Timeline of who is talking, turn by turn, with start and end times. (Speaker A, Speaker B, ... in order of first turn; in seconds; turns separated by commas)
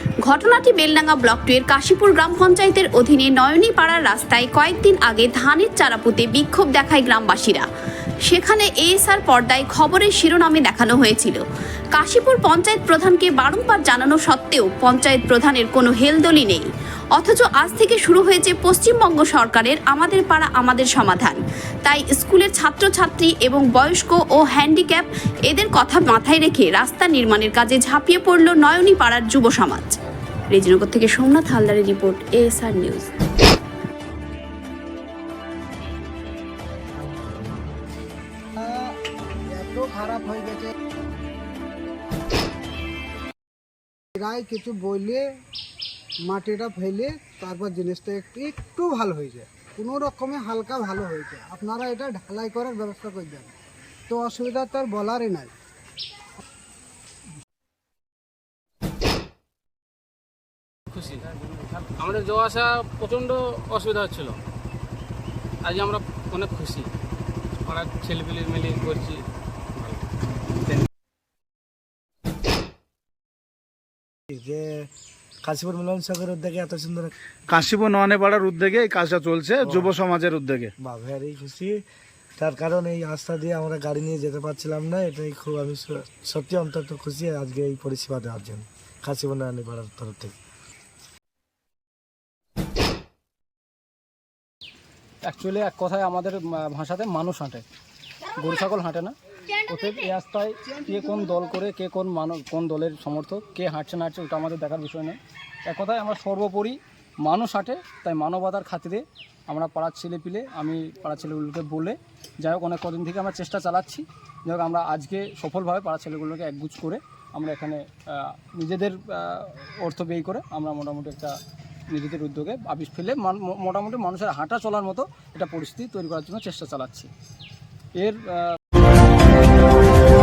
Speaker A: 0.2-7.7, Speaker A: 8.3-11.4, Speaker A: 11.9-29.9, Speaker A: 30.5-33.1, Speaker B: 38.5-38.9, Speaker B: 39.5-40.7, Speaker B: 44.1-45.2, Speaker B: 46.2-53.5, Speaker B: 54.1-55.5, Speaker C: 60.9-64.4, Speaker C: 65.6-66.9, Speaker C: 67.7-69.2, Speaker C: 69.8-70.0, Speaker D: 74.3-74.6, Speaker D: 75.4-77.1, Speaker E: 77.5-80.7, Speaker D: 79.6-79.9, Speaker D: 80.8-81.8, Speaker D: 82.4-90.3, Speaker F: 95.2-97.6, Speaker F: 98.4-99.1, Speaker F: 99.7-121.3, Speaker F: 121.9-127.1, Speaker F: 128.0-128.6